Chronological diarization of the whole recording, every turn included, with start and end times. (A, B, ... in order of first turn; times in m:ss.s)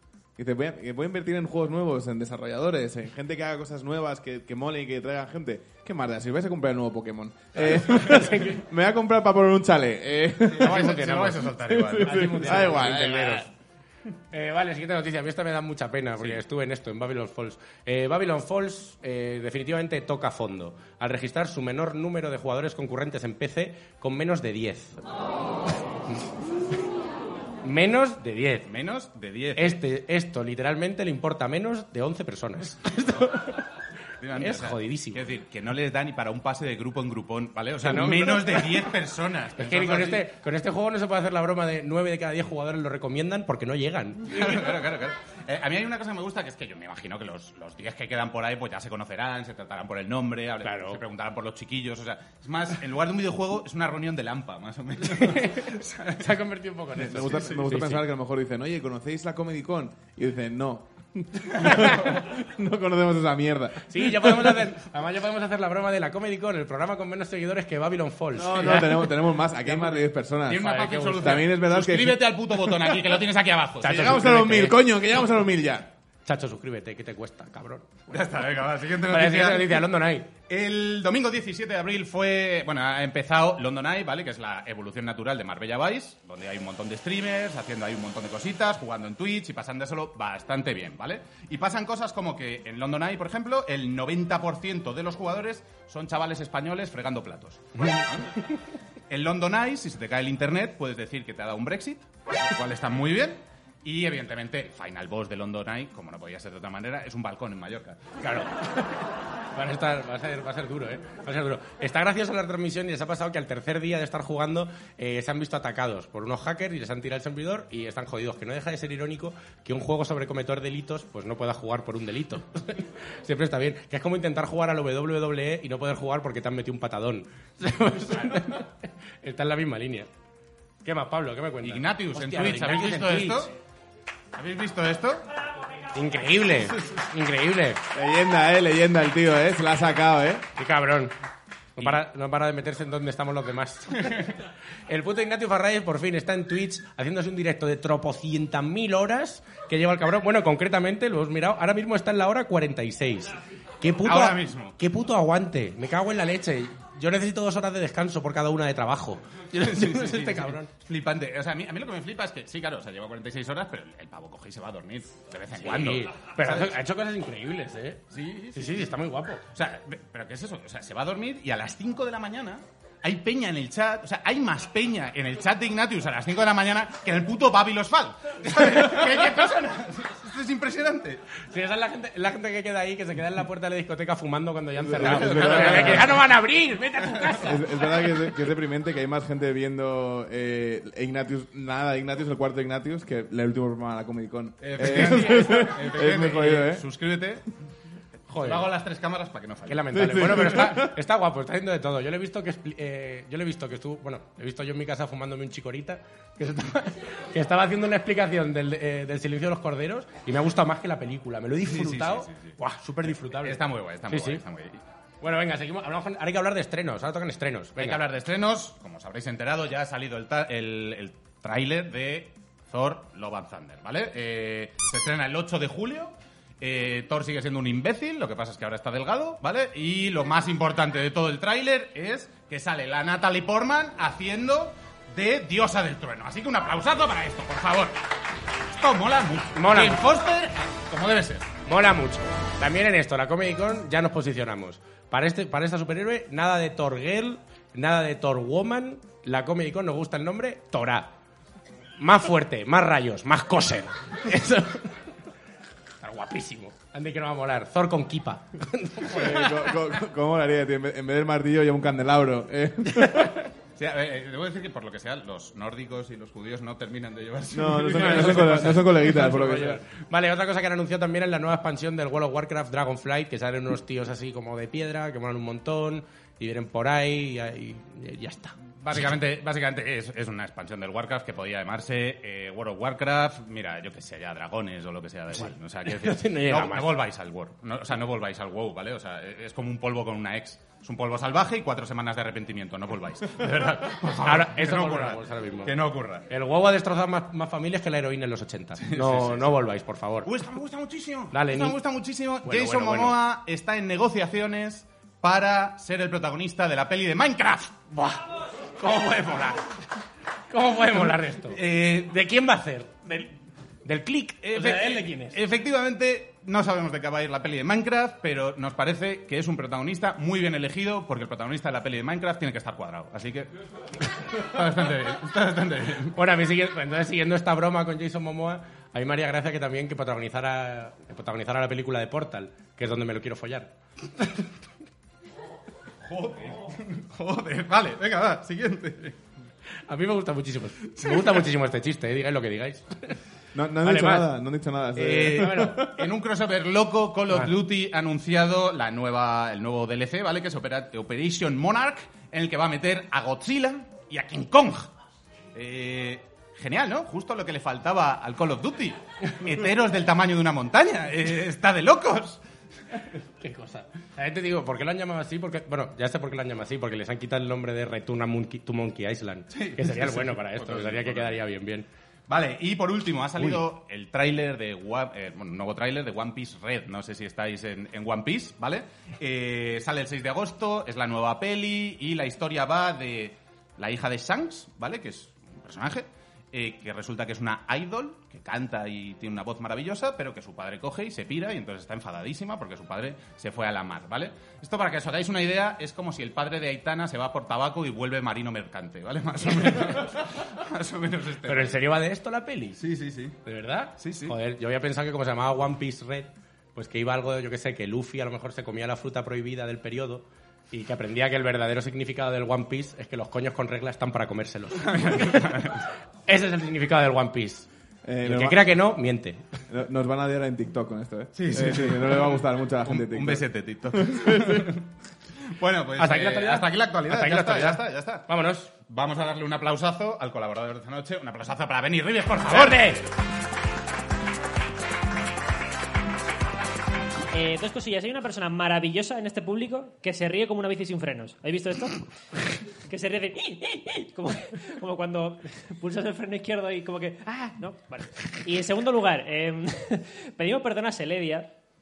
0:00.4-0:10.9 A
0:07.6-0:08.6 B
0:10.5-0:13.0 C
0:10.5-0:13.5 B
0:11.6-0:13.5 A
0:14.3-0:25.0 B
0:27.6-0:28.7 B
0:28.6-0:29.8 C
0:29.6-0:33.7 B
0:34.2-0:40.2 C
0:34.4-0:35.2 B
0:37.8-0:38.9 B
0:39.6-0:44.8 B
0:44.3-0:56.3 C
0:50.6-0:51.0 B
0:55.1-0:58.0 B
0:57.0-1:04.6 A
1:01.6-1:02.0 B
1:01.7-1:02.2 C
1:03.9-1:10.1 B
1:08.4-1:12.8 A
1:10.5-1:14.2 C
1:10.6-1:11.5 B
1:13.8-1:14.8 B
1:13.9-1:15.9 A
1:16.2-1:20.3 B
1:18.1-1:19.8 C
1:20.5-1:38.5 C
1:39.1-1:48.0 C
1:48.2-1:49.0 B
1:49.6-2:10.1 B
2:10.8-2:13.5 B
2:11.6-2:13.5 C
2:14.4-2:15.2 C
2:15.9-2:17.8 B
2:17.9-2:20.5 A
2:20.6-2:21.1 B
2:21.8-2:24.4 B
2:24.9-2:40.7 B
2:34.0-2:34.8 C
2:39.6-2:46.7 C
2:45.5-2:49.4 B
2:48.1-2:48.8 C
2:49.5-3:01.2 C
3:01.5-3:08.0 B
3:04.8-3:06.2 A
3:05.0-3:06.2 C
3:07.2-3:07.4 C
3:07.4-3:16.8 A
3:14.6-3:17.5 C
3:14.9-3:15.2 B
3:18.3-3:18.7 B
3:18.4-3:20.6 C
3:19.6-3:34.4 B
3:19.9-3:21.0 A
3:31.6-3:32.6 C
3:33.3-3:34.8 C
3:35.2-3:38.0 B
3:37.8-3:58.0 C
3:58.7-4:01.5 C
3:59.6-4:00.0 B
4:01.6-4:11.1 B
4:12.0-4:15.0 B
4:16.0-4:19.9 B
4:19.1-4:23.5 A
4:23.8-4:28.8 C
4:27.5-4:29.8 A
4:27.8-4:38.6 B
4:38.7-4:56.2 C
4:45.3-4:47.0 B
4:54.2-4:55.8 B
4:56.3-5:00.3 B
4:58.8-4:59.5 C
5:00.2-5:08.0 C
5:01.3-5:01.8 B
5:02.4-5:03.2 B
5:08.8-5:09.6 B
5:08.9-5:09.4 C
5:10.5-5:13.3 B
5:11.5-5:12.1 C
5:13.8-5:15.4 B
5:14.4-5:23.5 C
5:24.2-5:26.1 C
5:26.1-5:33.7 B
5:36.0-5:39.2 C
5:39.9-5:43.2 B
5:40.9-5:41.3 C
5:43.5-5:46.0 A
5:43.8-5:44.3 B
5:45.0-5:54.9 C
5:45.3-5:45.9 B
5:55.5-6:02.4 C
6:03.4-6:11.9 B
6:09.5-6:11.4 C
6:12.3-6:41.8 C
6:13.4-6:13.6 B
6:41.4-6:42.8 B
6:42.8-6:43.4 C
6:43.4-6:55.7 B
6:44.0-6:44.4 C
6:54.8-6:55.9 C
6:56.3-6:57.7 B
6:58.0-6:58.6 A
6:58.2-6:59.4 B
6:59.7-7:04.7 A
7:01.4-7:04.9 C
7:05.4-7:08.2 C
7:06.0-7:08.7 B
7:08.8-7:13.1 C
7:12.5-7:13.1 B
7:17.3-7:22.0 D
7:22.6-7:31.5 D